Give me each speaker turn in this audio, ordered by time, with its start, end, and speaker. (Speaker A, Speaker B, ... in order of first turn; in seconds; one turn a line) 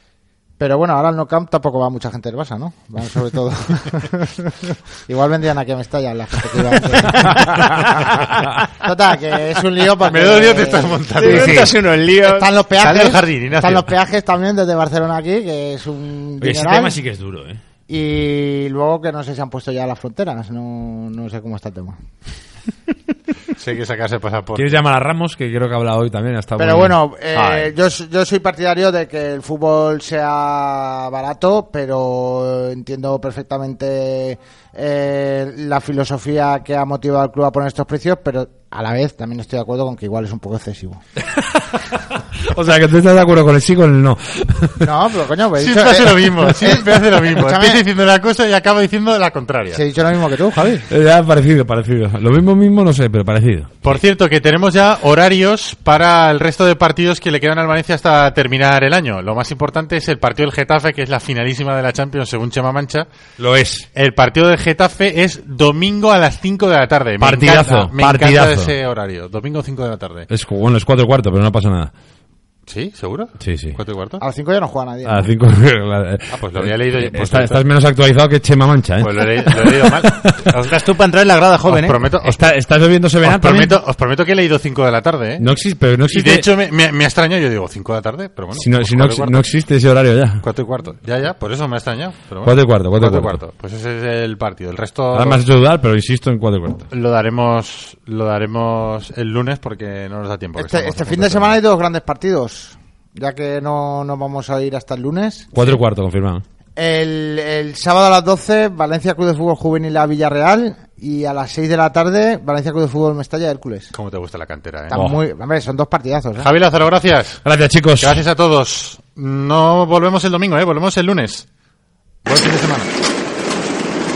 Speaker A: 0.6-17.0
Speaker B: 10.1-11.8
Speaker C: 11.2-12.5
Speaker B: 12.8-13.9
Speaker D: 16.4-17.6
Speaker A: 17.9-22.0
Speaker B: 23.6-24.8
Speaker D: 24.6-27.7
Speaker A: 26.6-41.0
Speaker D: 41.4-44.9
Speaker A: 44.8-47.8
Speaker B: 45.6-49.8
Speaker A: 49.7-50.9
Speaker D: 50.9-54.0
Speaker B: 53.8-63.1
Speaker D: 63.4-63.9
Speaker B: 64.0-70.3
Speaker D: 67.2-68.7
Speaker D: 70.3-71.9
Speaker B: 72.7-74.2
Speaker D: 73.4-73.8
Speaker A: 74.2-75.3
Speaker D: 75.1-80.4
Speaker B: 76.3-77.7
Speaker B: 79.0-80.9
Speaker C: 80.6-82.0
Speaker B: 81.7-82.4
Speaker D: 82.2-83.8
Speaker B: 83.2-85.5
Speaker D: 85.4-86.5
Speaker B: 86.1-89.4
Speaker D: 88.6-90.4
Speaker B: 90.4-95.4
Speaker D: 92.5-93.4
Speaker D: 95.1-96.9
Speaker B: 96.9-101.5
Speaker A: 100.6-105.8
Speaker D: 105.5-106.4
Speaker A: 106.8-113.9
Speaker B: 113.9-115.0
Speaker A: 114.9-116.5
Speaker D: 114.9-115.2
Speaker B: 116.4-117.5
Speaker D: 117.5-118.2
Speaker B: 118.0-121.5
Speaker B: 122.2-122.9